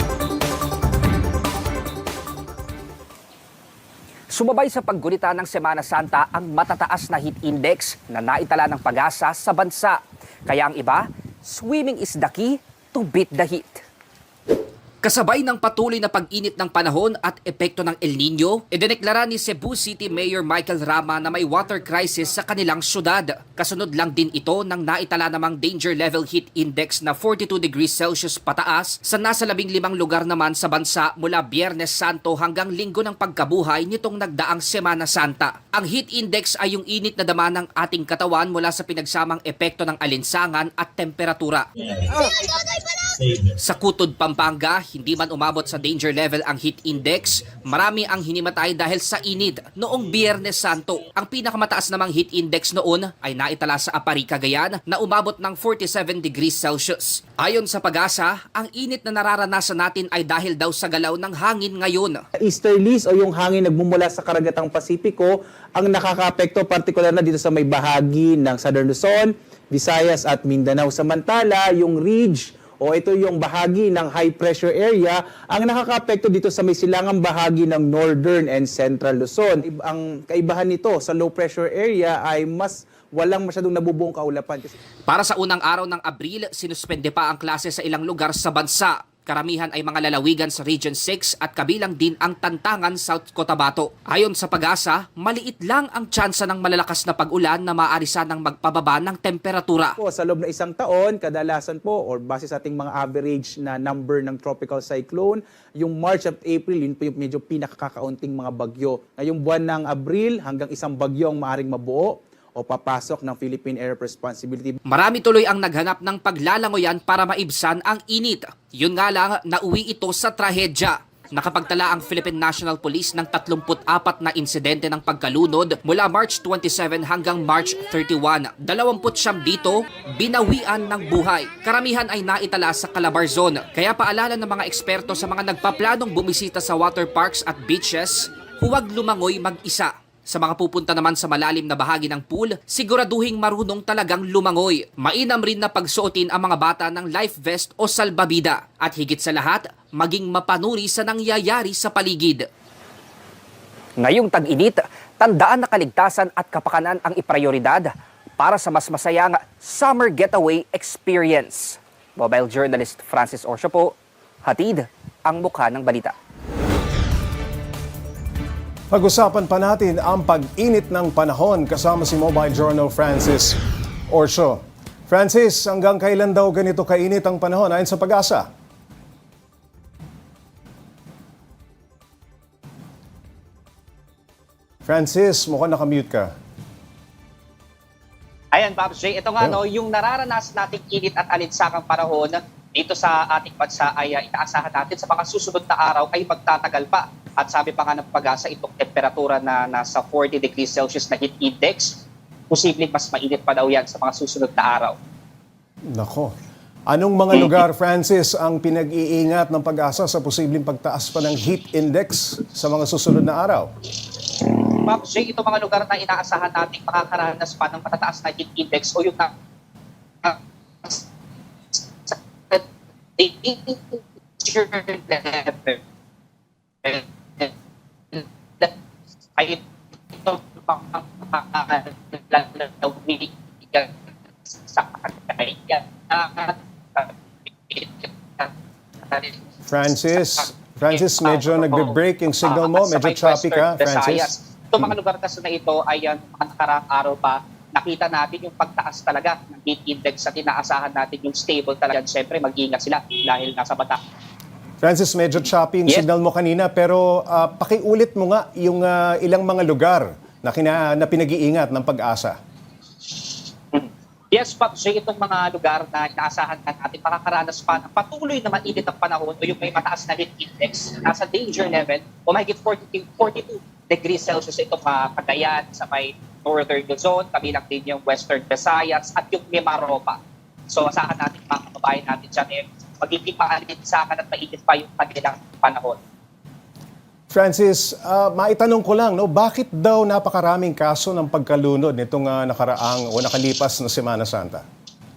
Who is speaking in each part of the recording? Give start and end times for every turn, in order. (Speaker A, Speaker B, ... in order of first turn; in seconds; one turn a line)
Speaker A: 4.3-13.8
Speaker A: 15.0-41.7
Speaker A: 43.3-62.2
Speaker B: 62.4-84.8
Speaker A: 85.1-100.0
Speaker B: 100.0-114.8
Speaker A: 114.9-152.4
Speaker A: 154.0-163.9
Speaker A: 164.4-166.1
Speaker C: 168.9-173.6
Speaker C: 174.1-178.5
Speaker C: 184.9-186.3
Speaker D: 188.5-205.0
Speaker C: 205.9-206.3
Speaker C: 206.9-213.7
Speaker D: 207.3-207.6
Speaker D: 214.8-219.3
Speaker D: 220.2-221.1
Speaker D: 221.7-222.7
Speaker D: 223.2-225.8
Speaker D: 226.8-227.5
Speaker D: 228.1-228.7
Speaker D: 229.4-229.6
Speaker D: 230.1-233.9
Speaker D: 234.5-237.1
Speaker D: 237.7-238.5
Speaker D: 239.1-239.4
Speaker C: 239.7-244.3
Speaker D: 240.2-254.0
Speaker C: 254.8-262.4
Speaker D: 263.7-286.0
Speaker C: 287.3-294.6